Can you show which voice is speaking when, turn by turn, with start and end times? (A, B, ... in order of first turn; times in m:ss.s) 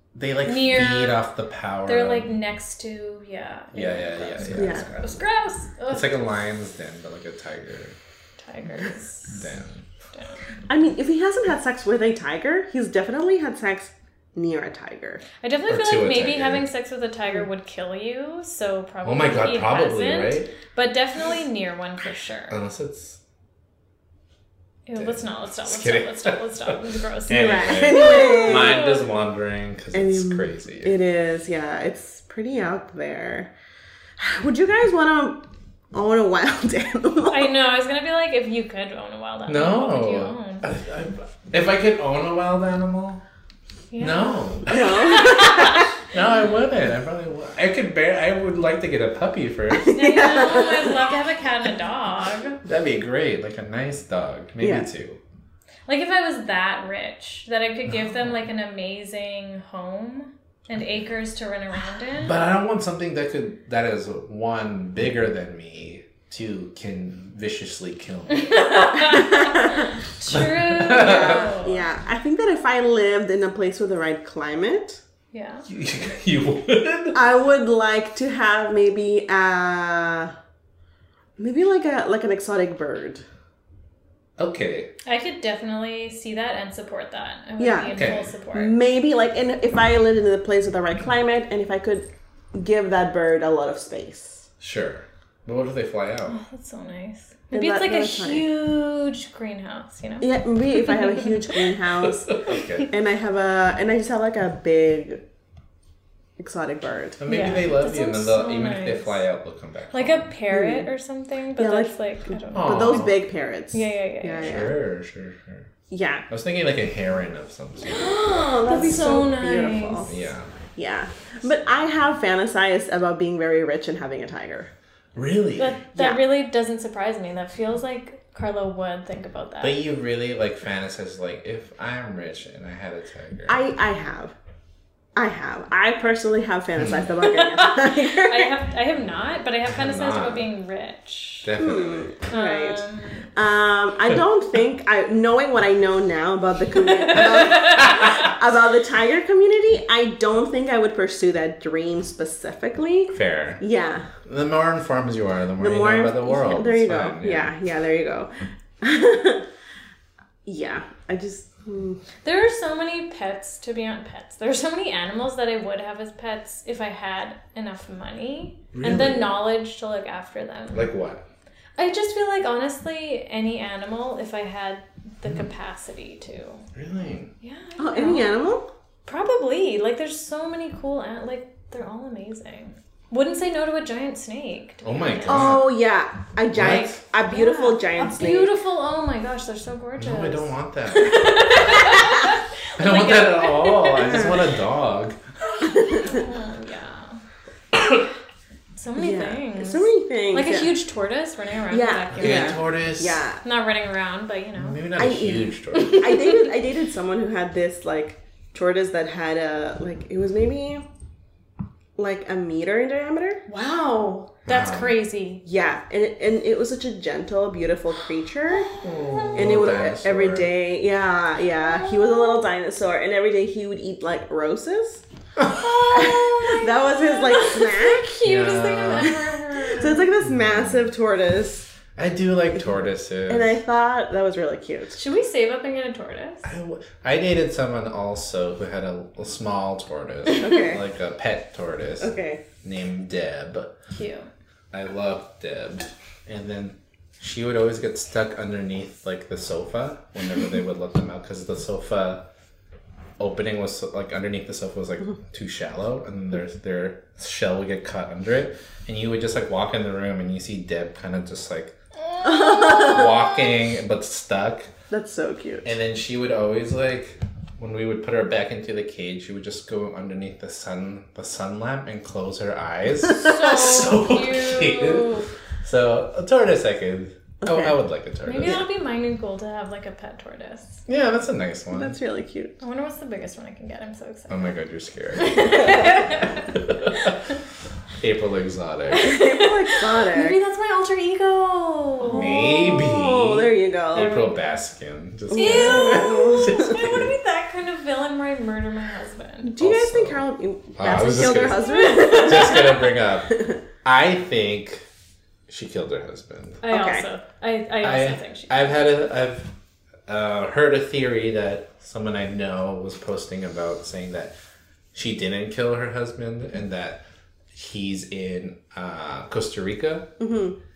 0:00.1-0:02.3 A
0:00.4-0:01.2 B
0:01.8-0:06.2 B
0:03.7-0:05.2 A
0:04.5-0:04.9 C
0:05.9-0:08.0 A
0:08.4-0:09.5 B
0:09.3-0:09.9 A
0:10.1-0:10.5 B
0:10.7-0:15.2 C
0:15.4-0:22.6 B
0:15.7-0:16.6 A
0:19.0-0:20.5 A
0:22.5-0:23.2 A
0:24.8-0:29.1 B
0:25.0-0:31.0 A
0:27.3-0:28.8 C
0:29.9-0:33.5 C
0:34.2-0:37.5 C
0:37.3-0:40.7 B
0:39.5-0:43.2 A
0:43.9-0:45.9 B
0:44.0-0:50.0 A
0:44.7-0:45.9 C
0:49.7-0:51.1 C
0:49.9-0:52.6 B
0:52.6-0:55.2 A
0:54.6-0:54.8 C
0:55.9-1:02.4 B
1:02.2-1:08.7 A
1:08.3-1:11.8 B
1:09.0-1:09.9 C
1:10.3-1:11.5 A
1:10.9-1:15.0 C
1:15.3-1:15.7 B
1:15.7-1:17.2 A
1:17.1-1:20.3 C
1:21.4-1:23.2 C
1:24.4-1:24.9 A
1:25.0-1:28.7 B
1:27.6-1:28.0 C
1:27.9-1:28.3 A
1:28.5-1:34.5 C
1:34.6-1:36.4 A
1:36.3-1:41.6 B
1:37.5-1:38.5 C
1:40.2-1:45.2 C
1:42.0-1:42.9 A
1:42.5-1:42.8 B
1:46.4-1:47.6 C
1:47.2-1:50.3 A
1:47.2-1:49.2 B
1:49.9-1:53.1 B
1:50.5-1:50.9 C
1:51.6-1:52.0 C
1:52.5-1:54.7 C
1:52.5-1:53.2 A
1:53.7-1:54.5 B
1:54.4-1:55.7 A
1:55.9-1:56.3 C
1:56.3-1:58.4 A
1:57.9-2:00.1 B
1:57.9-2:00.1 C
2:00.1-2:00.5 A
2:00.7-2:04.7 C
2:05.1-2:05.8 A
2:05.6-2:09.8 B
2:05.9-2:06.2 C
2:09.6-2:13.6 A
2:13.5-2:14.3 C
2:15.2-2:18.5 C
2:16.8-2:17.1 A
2:17.2-2:21.5 B
2:19.6-2:20.5 A
2:21.4-2:22.1 A
2:21.6-2:34.1 C
2:22.3-2:23.3 B
2:26.7-2:28.3 B
2:33.1-2:33.6 A
2:34.2-2:37.5 A
2:35.6-2:39.4 C
2:40.4-2:42.0 C
2:42.2-2:50.9 B
2:48.7-2:49.3 A
2:50.7-2:51.2 A
2:51.8-2:56.6 B
2:56.7-2:57.3 A
2:57.4-2:58.3 B
2:57.8-2:58.6 C
2:59.0-3:05.6 B
3:04.8-3:05.7 A
3:05.3-3:08.5 C
3:06.5-3:07.0 A
3:06.6-3:14.3 B
3:10.0-3:11.9 A
3:12.8-3:15.2 A
3:14.0-3:14.4 C
3:15.5-3:17.2 B
3:15.6-3:16.2 C
3:17.7-3:18.0 A
3:18.8-3:22.7 B
3:19.0-3:20.7 C
3:21.7-3:23.4 C
3:22.2-3:23.2 A
3:23.4-3:24.8 B
3:24.6-3:26.3 A
3:25.0-3:30.8 C
3:25.7-3:26.5 B
3:32.0-3:33.4 C
3:33.5-3:35.4 B
3:34.5-3:35.0 A
3:35.4-3:38.7 C
3:38.6-3:39.5 B
3:38.8-3:40.5 A
3:39.3-3:45.0 C
3:41.6-3:42.5 B
3:45.4-3:45.8 A
3:45.4-3:50.1 B
3:45.9-3:48.1 C
3:48.2-3:49.2 A
3:49.7-3:51.7 C
3:50.2-3:50.9 A
3:52.0-3:53.6 A
3:53.3-3:55.0 C
3:55.0-3:56.4 B
3:56.4-4:03.8 A
4:00.3-4:00.8 C
4:02.0-4:02.4 C
4:03.9-4:04.3 B
4:04.7-4:12.2 A
4:13.2-4:21.7 A
4:22.1-4:23.5 B
4:22.2-4:23.2 C
4:22.8-4:24.7 A
4:24.9-4:25.7 C
4:25.6-4:38.6 A
4:33.2-4:35.3 B
4:38.2-4:40.8 B
4:40.9-4:42.0 A
4:41.7-4:42.6 C
4:42.6-4:44.5 B
4:44.3-4:47.4 A
4:45.2-4:47.4 B
4:48.0-4:49.1 A
4:48.9-4:52.6 B
4:49.0-4:50.4 C
4:52.1-4:54.1 C
4:52.1-4:57.1 A
4:53.9-4:54.4 B
4:55.3-4:56.8 C
4:55.3-4:59.5 B
4:59.4-5:03.5 C
4:59.6-5:00.2 A
5:00.8-5:04.8 A
5:01.3-5:02.9 B
5:05.5-5:06.6 A
5:06.6-5:08.8 B
5:06.7-5:07.0 C
5:07.8-5:09.6 A
5:10.1-5:14.3 A
5:14.9-5:20.1 A
5:20.2-5:20.6 C